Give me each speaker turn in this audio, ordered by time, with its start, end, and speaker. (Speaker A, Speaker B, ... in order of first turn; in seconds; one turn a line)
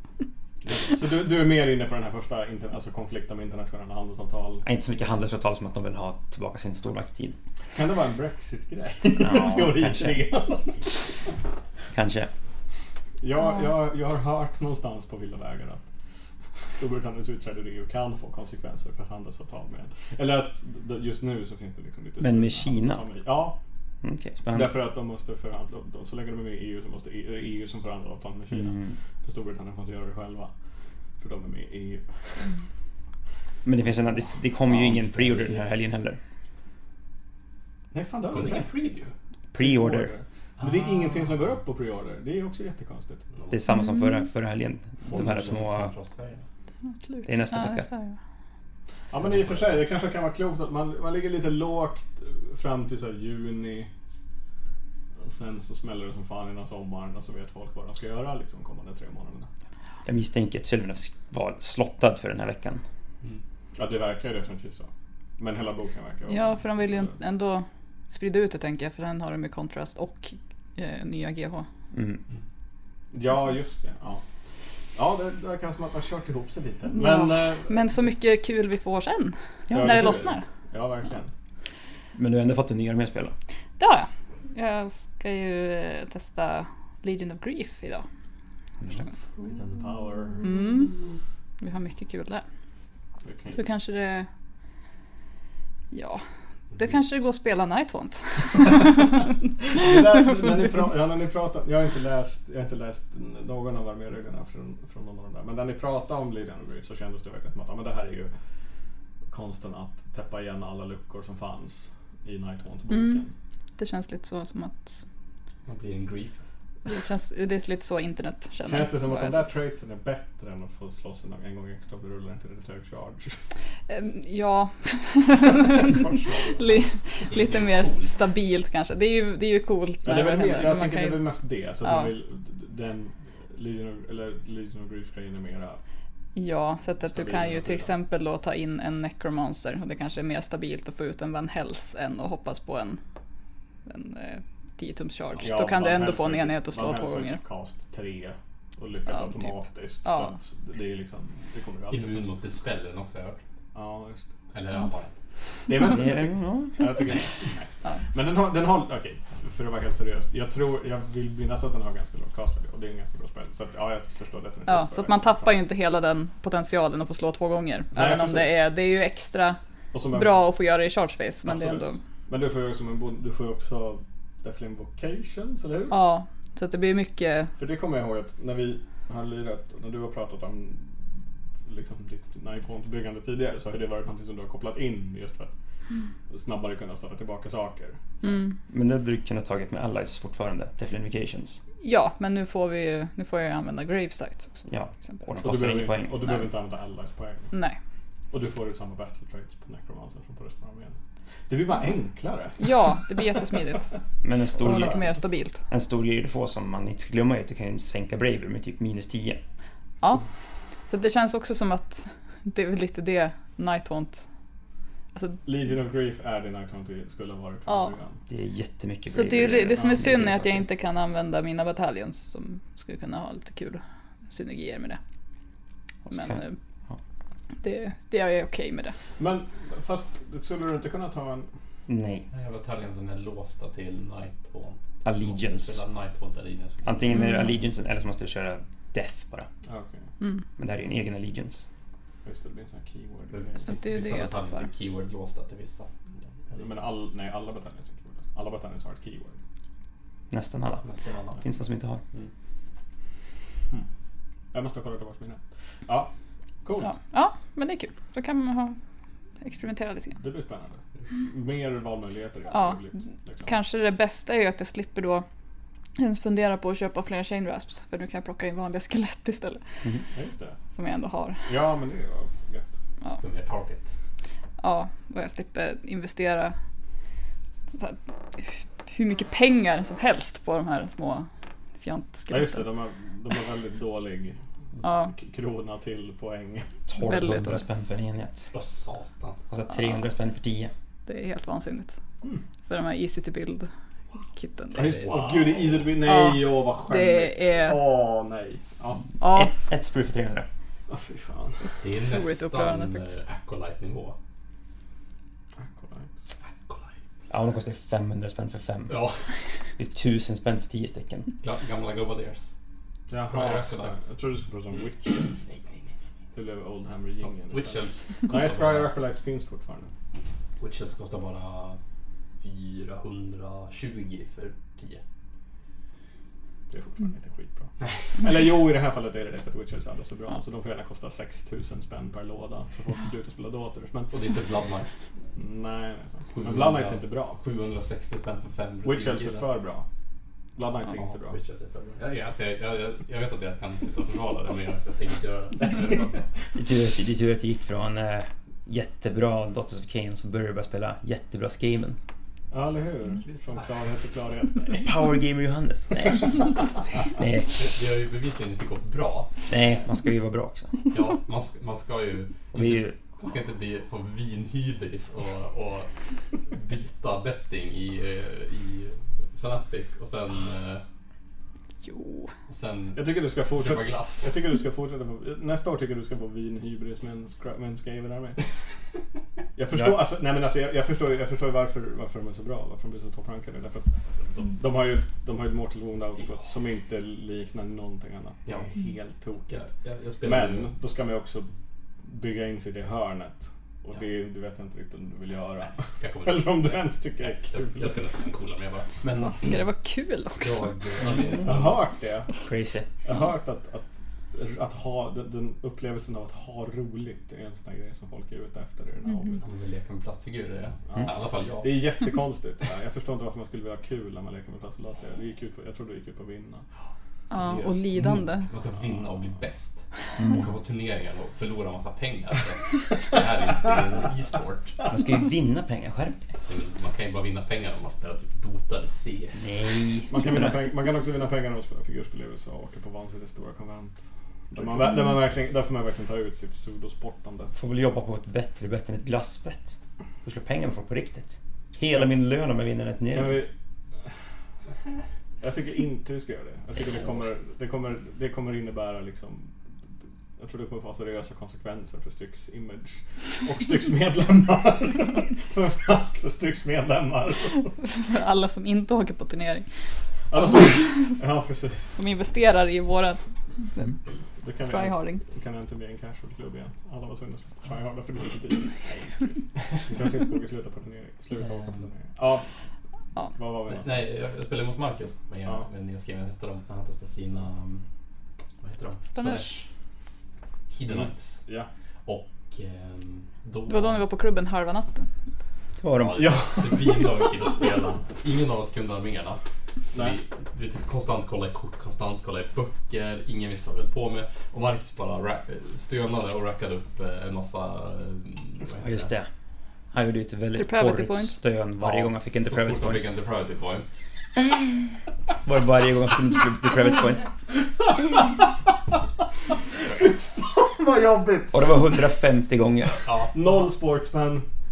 Speaker A: 0.7-4.7
Speaker B: 4.7-7.4
Speaker A: 7.7-10.9
Speaker B: 9.2-10.3
Speaker B: 11.9-12.3
Speaker A: 13.2-15.8
Speaker A: 16.7-23.6
Speaker B: 22.2-23.0
Speaker B: 24.0-24.8
Speaker A: 24.5-30.5
Speaker B: 28.5-29.0
Speaker A: 31.2-32.5
Speaker B: 33.6-36.2
Speaker C: 35.0-35.5
Speaker A: 37.9-38.7
Speaker C: 38.3-39.1
Speaker B: 39.5-40.1
Speaker A: 39.6-43.2
Speaker C: 43.3-43.6
Speaker B: 43.5-45.9
Speaker D: 43.7-44.2
Speaker C: 45.1-46.5
Speaker D: 46.8-48.2
Speaker B: 47.3-47.9
Speaker A: 49.1-53.9
Speaker C: 49.2-49.8
Speaker A: 55.2-59.5
Speaker B: 60.0-62.8
Speaker A: 63.8-67.1
Speaker D: 66.3-71.7
Speaker B: 71.9-72.2
Speaker A: 73.1-74.2
Speaker A: 75.0-77.8
Speaker D: 76.9-80.5
Speaker B: 79.7-80.1
Speaker A: 79.7-81.3
Speaker B: 82.1-83.3
Speaker D: 83.8-88.1
Speaker A: 89.3-90.6
Speaker D: 90.4-91.1
Speaker D: 91.6-92.5
Speaker A: 93.2-93.6
Speaker D: 93.5-94.3
Speaker D: 95.9-96.2
Speaker D: 96.8-99.3
Speaker A: 99.6-108.3
Speaker A: 109.3-113.3
Speaker D: 112.9-113.2
Speaker D: 113.8-115.0
Speaker C: 115.7-116.4
Speaker D: 116.9-119.5
Speaker A: 118.6-123.4
Speaker D: 123.9-131.2
Speaker A: 125.8-126.8
Speaker C: 127.3-128.2
Speaker A: 130.0-135.8
Speaker D: 131.8-132.1
Speaker D: 136.3-143.0
Speaker A: 137.0-137.9
Speaker D: 143.9-147.4
Speaker A: 145.4-152.3
Speaker D: 149.1-150.3
Speaker C: 151.9-153.4
Speaker A: 153.7-154.3
Speaker C: 154.5-155.1
Speaker A: 155.7-165.5
Speaker B: 155.9-157.2
Speaker D: 164.7-169.6
Speaker A: 167.9-168.6
Speaker A: 169.9-170.4
Speaker D: 170.1-172.0
Speaker A: 171.4-176.0
Speaker D: 175.9-177.5
Speaker A: 177.6-180.9
Speaker A: 181.7-185.5
Speaker A: 186.3-188.3
Speaker D: 188.2-188.6
Speaker B: 188.7-191.6
Speaker D: 191.8-195.3
Speaker B: 194.7-196.5
Speaker A: 195.4-197.5
Speaker D: 197.5-197.8
Speaker A: 198.3-201.0
Speaker A: 201.5-203.6
Speaker D: 202.6-203.9
Speaker B: 204.2-205.1
Speaker D: 204.5-205.6
Speaker B: 205.7-209.4
Speaker D: 210.9-214.3
Speaker D: 215.1-215.4
Speaker A: 215.5-218.2
Speaker D: 217.7-217.9
Speaker B: 218.3-220.7
Speaker D: 219.1-225.0
Speaker B: 226.1-227.0
Speaker D: 226.1-226.6
Speaker D: 227.6-229.0
Speaker A: 229.2-231.5
Speaker B: 231.9-232.3
Speaker C: 232.3-237.5
Speaker B: 235.0-235.8
Speaker B: 236.8-239.5
Speaker D: 237.1-237.5
Speaker A: 239.7-240.0
Speaker D: 240.2-240.4
Speaker B: 240.6-241.7
Speaker A: 242.2-243.8
Speaker C: 243.3-245.9
Speaker D: 243.7-244.7
Speaker C: 246.5-246.9
Speaker A: 246.6-249.4
Speaker B: 250.3-250.9
Speaker C: 250.8-251.5
Speaker B: 251.4-252.0
Speaker A: 254.5-256.1
Speaker A: 256.6-256.9
Speaker D: 256.8-258.8
Speaker D: 259.4-260.2
Speaker A: 260.1-263.5
Speaker D: 262.5-262.9
Speaker D: 263.4-265.3
Speaker D: 266.0-269.6
Speaker A: 270.1-270.6
Speaker D: 270.7-271.5
Speaker A: 271.5-272.7
Speaker C: 273.2-273.9
Speaker D: 274.6-276.6
Speaker D: 277.7-281.3
Speaker D: 281.8-282.7
Speaker A: 282.3-284.4
Speaker D: 284.8-285.1
Speaker A: 285.1-286.7
Speaker B: 286.9-288.5
Speaker D: 287.0-287.6
Speaker C: 288.5-289.4
Speaker B: 289.5-290.7
Speaker D: 291.1-292.0
Speaker D: 292.7-293.7
Speaker D: 294.2-295.1
Speaker C: 294.7-295.9
Speaker A: 294.7-299.0
Speaker D: 296.0-297.8
Speaker D: 299.2-299.5
Speaker B: 299.2-300.5
Speaker A: 300.9-301.8
Speaker C: 301.8-304.2
Speaker D: 301.9-303.1
Speaker A: 305.6-306.1
Speaker C: 306.4-307.3
Speaker B: 307.3-309.1
Speaker C: 308.9-309.2
Speaker B: 309.8-311.3
Speaker C: 311.4-312.5
Speaker A: 313.1-315.4
Speaker C: 313.1-314.1
Speaker C: 315.5-315.8
Speaker A: 316.3-319.9
Speaker C: 317.5-318.9
Speaker C: 320.6-321.8
Speaker C: 322.4-325.0
Speaker A: 326.7-334.1
Speaker C: 334.1-335.1
Speaker A: 335.4-337.4
Speaker C: 336.3-339.5
Speaker A: 338.8-339.9
Speaker A: 340.6-341.4
Speaker C: 340.9-346.3
Speaker B: 346.6-352.0
Speaker A: 352.5-354.9
Speaker B: 354.8-356.5
Speaker B: 357.1-357.5
Speaker C: 357.6-359.3
Speaker B: 359.5-360.7
Speaker C: 360.9-370.8
Speaker B: 362.5-363.0
Speaker D: 371.8-372.3
Speaker C: 372.5-374.4
Speaker A: 372.9-378.4
Speaker A: 379.6-389.7
Speaker B: 379.7-380.0
Speaker C: 389.5-390.7
Speaker A: 390.2-391.5
Speaker A: 392.0-398.0
Speaker C: 396.0-399.7
Speaker D: 399.2-400.7
Speaker C: 400.4-401.8
Speaker B: 401.2-401.6
Speaker A: 401.4-402.3
Speaker B: 402.4-402.9
Speaker A: 403.0-409.4
Speaker D: 409.1-409.4
Speaker C: 409.4-411.8
Speaker A: 410.9-416.6
Speaker D: 417.3-418.5
Speaker C: 417.3-424.8
Speaker B: 420.2-420.5
Speaker B: 424.9-426.3
Speaker C: 426.5-429.6
Speaker B: 429.4-430.6
Speaker A: 430.1-437.5
Speaker B: 437.6-443.4
Speaker A: 443.1-443.5
Speaker A: 445.4-449.5
Speaker A: 450.4-457.7
Speaker D: 457.9-459.7
Speaker A: 460.3-462.0
Speaker D: 460.3-461.2
Speaker D: 462.0-463.2
Speaker A: 464.4-472.5
Speaker D: 464.7-465.2
Speaker C: 471.5-471.8
Speaker A: 473.4-474.1
Speaker C: 473.7-477.8
Speaker C: 478.6-479.7
Speaker D: 479.1-479.5
Speaker C: 480.7-481.4
Speaker A: 480.9-481.7
Speaker C: 482.1-484.1
Speaker D: 483.7-485.1
Speaker B: 485.8-486.3
Speaker C: 486.0-499.1
Speaker A: 486.1-487.2
Speaker A: 489.9-490.2
Speaker B: 498.8-499.3
Speaker B: 499.9-503.1
Speaker D: 500.6-501.4
Speaker C: 501.8-504.0
Speaker B: 505.4-507.3
Speaker A: 508.0-508.4
Speaker A: 509.9-511.8
Speaker B: 511.5-513.0
Speaker C: 513.0-513.5
Speaker A: 513.3-514.5